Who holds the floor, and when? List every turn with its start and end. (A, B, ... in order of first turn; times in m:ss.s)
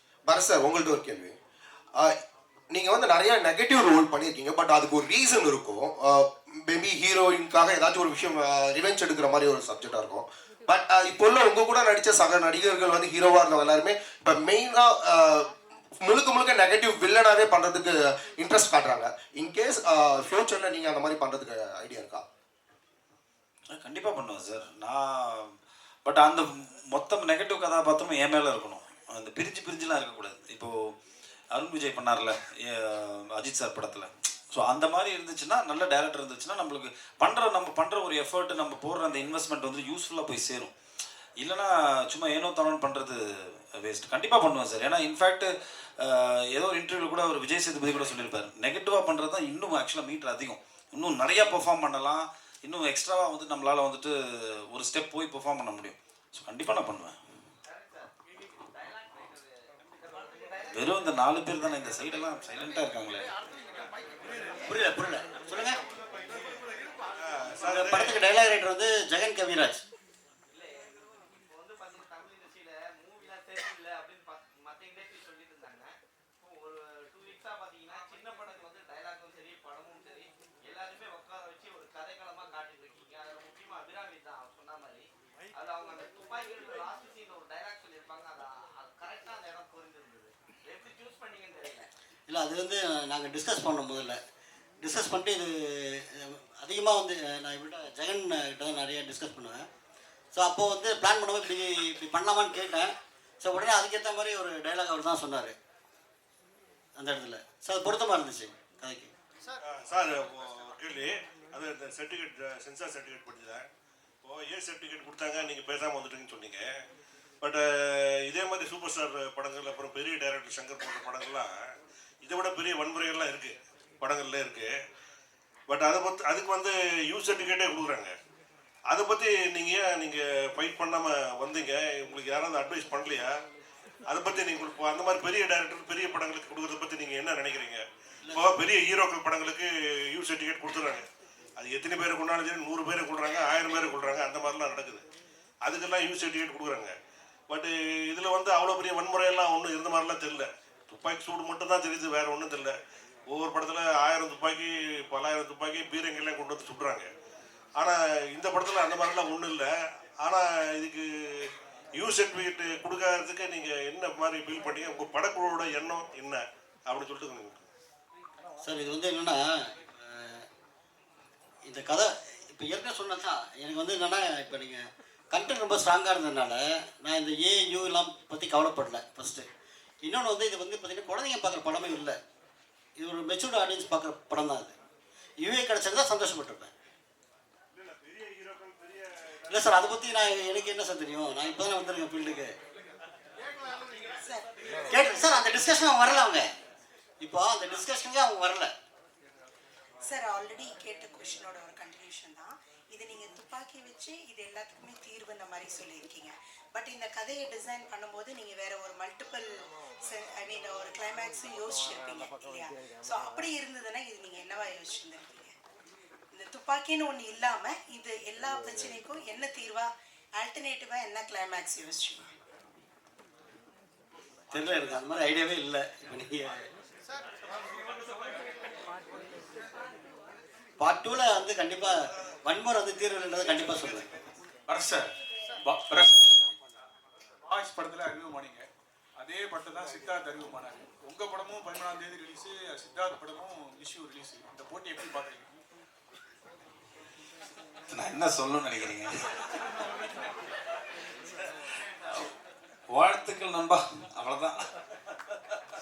0:00.3-0:01.4 A
0:02.7-0:15.5 A
0:16.0-0:22.2 A
0:23.7-0:25.5 B
0:26.0-0:30.7 B
0:31.5-0:40.7 B
0:41.4-0:43.2 B
0:43.8-0:54.1 B
0:54.7-0:57.2 B
0:57.7-1:01.2 C
1:00.7-1:03.3 B
1:04.7-1:05.8 D
1:07.2-1:08.2 E
1:07.6-1:09.8 D
1:10.5-1:31.9 C
1:32.3-1:34.2 D
1:34.8-1:39.6 D
1:40.3-1:45.5 D
1:47.0-1:49.1 D
1:49.6-1:53.7 E
1:54.2-1:56.8 E
1:57.4-2:01.7 E
2:02.2-2:04.8 E
2:05.7-2:08.1 E
2:08.9-2:13.3 E
2:14.1-2:21.0 E
2:18.2-2:18.5 D
2:21.6-2:25.0 E
2:25.6-2:26.9 E
2:27.5-2:32.8 E
2:33.3-2:37.1 E
2:37.8-2:47.7 E
2:48.6-2:50.4 D
2:51.7-2:59.5 D
3:00.0-3:02.2 D
3:03.0-3:04.7 D
3:05.4-3:06.7 D
3:07.7-3:09.6 E
3:09.5-3:12.5 D
3:14.9-3:16.4 D
3:17.2-3:18.7 D
3:20.0-3:29.5 F
3:30.0-3:35.5 F
3:36.3-3:42.3 F
3:44.5-3:46.6 D
3:50.8-3:54.1 D
3:54.7-3:55.1 G
3:55.6-3:56.1 G
3:57.5-3:58.6 G
3:59.2-4:05.6 G
4:07.9-4:09.8 B
4:12.9-4:14.5 B